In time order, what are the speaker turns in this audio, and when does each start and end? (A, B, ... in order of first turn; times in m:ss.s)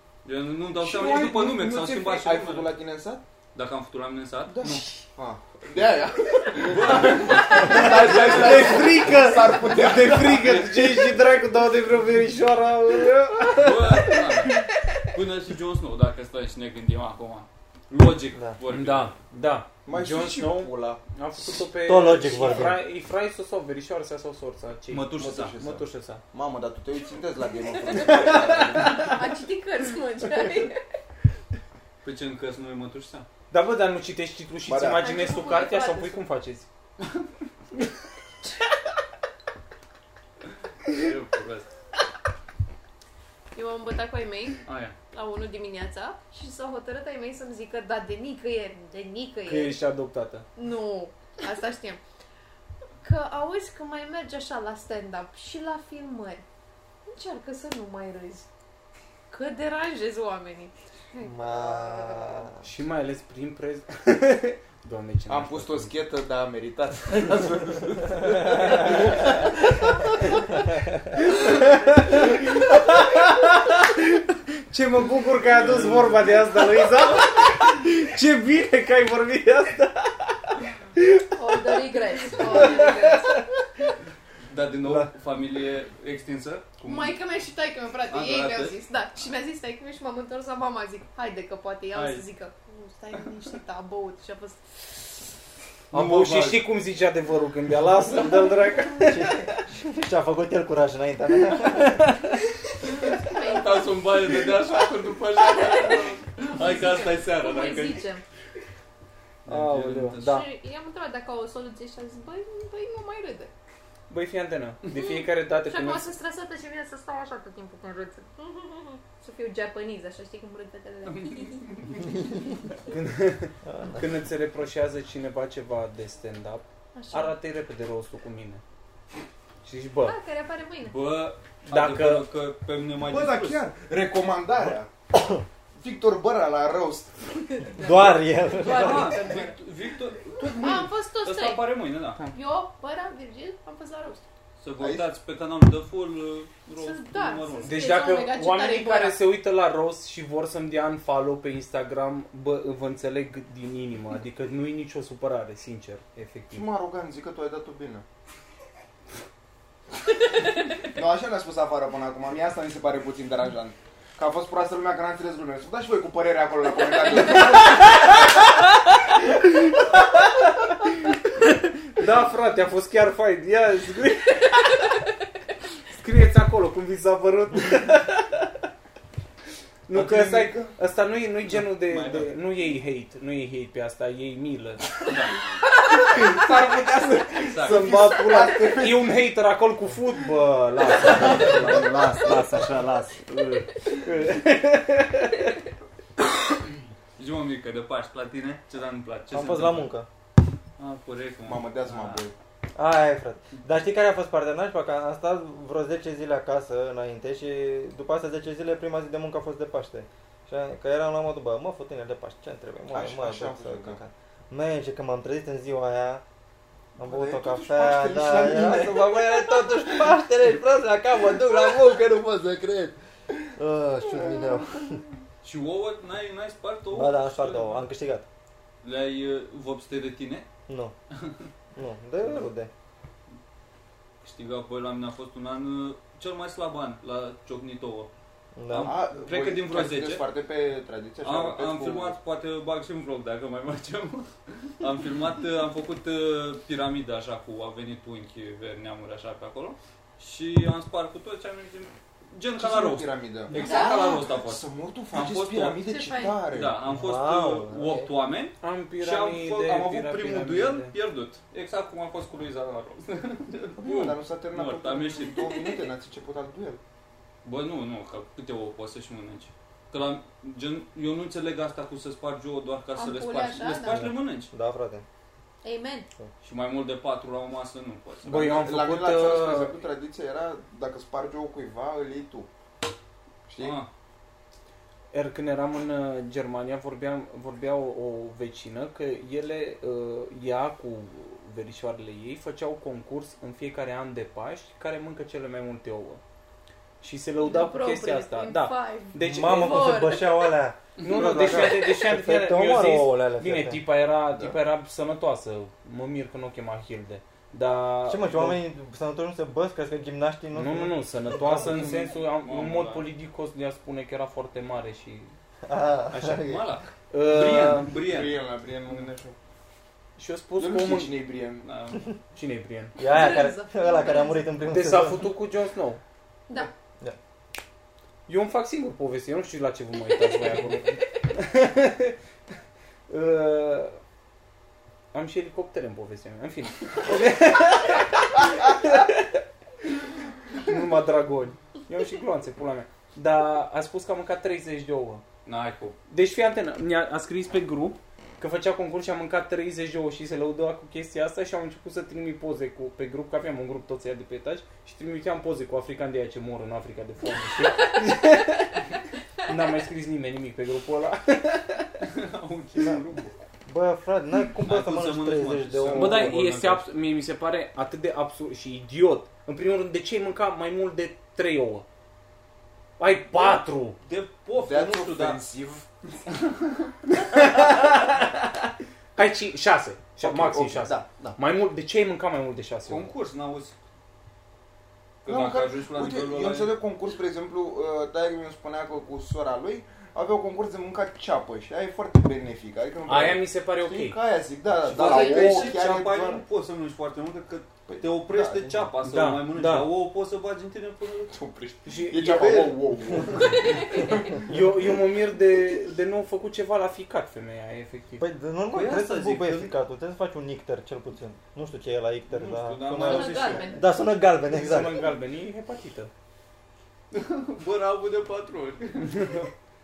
0:00.2-0:02.7 A
0:00.8-0:03.2 B
0:03.5-0:04.9 A
0:04.5-0:11.1 B
0:06.6-0:08.8 A
0:07.3-0:14.7 C
0:13.5-0:19.1 A
0:18.7-0:26.2 C
0:19.8-0:21.0 B
0:21.8-0:22.8 D
0:24.9-0:25.6 A
0:25.2-0:29.2 B
0:27.8-0:30.8 E
0:28.5-0:29.1 C
0:32.0-0:33.3 A
0:33.5-0:36.7 C
0:34.7-0:35.1 B
0:35.0-0:36.2 E
0:40.9-0:41.7 A
0:43.6-0:49.8 E
0:44.7-0:45.0 A
0:49.4-0:50.4 C
0:50.6-0:52.0 E
0:53.0-0:56.4 E
0:57.1-0:58.5 E
0:59.3-1:02.6 E
1:01.2-1:02.6 D
1:02.6-1:06.0 C
1:05.3-1:10.4 B
1:08.5-1:09.3 C
1:11.1-1:23.5 C
1:15.6-1:16.8 A
1:21.4-1:23.4 E
1:24.5-1:27.2 A
1:26.8-1:35.0 E
1:28.1-1:28.8 A
1:31.9-1:32.2 A
1:35.9-1:36.7 A
1:35.9-1:39.6 C
1:39.0-1:42.1 D
1:41.6-1:42.4 C
1:42.8-1:44.6 E
1:43.3-1:48.0 A
1:45.4-1:48.2 E
1:49.5-1:50.4 A
1:49.5-1:50.5 C
1:50.2-1:53.5 E
1:54.1-1:56.1 C
1:54.9-2:01.8 E
2:01.1-2:02.0 A
2:02.9-2:08.6 C
2:03.6-2:04.1 D
2:07.0-2:07.4 E
2:09.6-2:10.2 C
2:10.0-2:11.0 E
2:10.9-2:13.6 A
2:11.7-2:12.3 C
2:13.0-2:14.9 B
2:15.1-2:15.4 D
2:15.8-2:17.4 B
2:17.6-2:19.6 E
2:17.8-2:19.2 D
2:18.6-2:22.2 A
2:20.4-2:21.7 E
2:22.2-2:24.2 E
2:24.6-2:28.0 A
2:24.8-2:25.1 B
2:26.7-2:29.2 E
2:27.6-2:36.7 C
2:36.5-2:38.0 B
2:40.8-2:48.2 B
2:50.1-2:54.8 C
2:55.9-2:58.5 C
2:59.9-3:04.9 C
2:59.9-3:00.7 B
3:01.7-3:02.3 A
3:05.0-3:05.5 A
3:06.0-3:15.5 C
3:07.4-3:08.0 A
3:07.4-3:09.2 B
3:11.2-3:13.3 D
3:17.2-3:19.9 A
3:19.3-3:20.1 D
3:20.8-3:22.2 A
3:21.5-3:22.3 B
3:22.8-3:36.2 D
3:32.9-3:34.0 B
3:37.0-3:43.0 D
3:37.0-3:39.7 B
3:43.5-3:45.0 D
3:45.4-3:47.8 A
3:46.9-3:48.3 D
3:48.8-3:50.5 A
3:50.7-3:50.9 D
3:51.8-3:52.7 D
3:54.2-3:58.1 A
3:58.6-3:58.9 D
3:58.7-4:00.2 A
3:58.8-4:02.2 B
4:01.2-4:15.8 A
4:12.6-4:16.8 B
4:13.5-4:14.3 E
4:15.8-4:16.4 E
4:16.5-4:25.5 A
4:16.9-4:18.1 D
4:18.6-4:20.9 C
4:23.8-4:26.8 B
4:25.4-4:25.8 E
4:27.4-4:34.5 A
4:33.0-4:34.1 E
4:33.9-4:35.0 D
4:35.6-4:36.1 E
4:36.4-4:38.6 A
4:38.2-4:39.7 C
4:38.3-4:42.5 B
4:43.5-4:43.8 B
4:43.6-4:43.9 A
4:45.1-4:56.2 C
4:57.0-5:00.0 C
4:57.4-5:00.5 E
4:59.2-5:03.8 D
5:01.0-5:08.6 C
5:08.1-5:11.8 D
5:10.5-5:15.3 C
5:11.4-5:13.1 A
5:15.7-5:16.7 D
5:16.1-5:18.4 A
5:17.1-5:18.0 C
5:18.0-5:19.4 B
5:20.2-5:21.1 C
5:20.6-5:21.7 B
5:21.6-5:22.0 A
5:22.3-5:23.0 C
5:23.0-5:25.3 D
5:23.0-5:24.5 E
5:24.7-5:26.0 C
5:28.3-5:32.2 C
5:33.1-5:34.0 C
5:35.1-5:39.4 C
5:40.6-5:45.2 C
5:45.5-5:46.0 A
5:46.1-5:58.8 C
5:59.4-6:02.0 C
6:02.0-6:03.3 A
6:03.7-6:06.4 D
6:04.6-6:06.8 A
6:05.9-6:11.9 C
6:13.0-6:14.0 C
6:14.0-6:15.4 A
6:14.6-6:15.9 B
6:17.2-6:18.4 C
6:19.2-6:23.1 C
6:20.2-6:21.4 B
6:22.9-6:23.8 A
6:25.2-6:26.8 A
6:25.2-6:36.4 B
6:33.0-6:34.2 C
6:34.8-6:41.4 A
6:34.9-6:35.7 C
6:37.9-6:38.8 B
6:39.0-6:39.9 C
6:41.3-6:44.4 B
6:41.9-6:42.8 C
6:43.6-6:44.2 E
6:44.4-6:48.3 C
6:48.2-6:55.1 D
6:48.7-6:49.8 A
6:52.3-6:53.7 A
6:53.0-6:53.8 E
6:54.5-6:56.1 C
6:57.1-6:59.4 A
6:59.2-6:59.4 C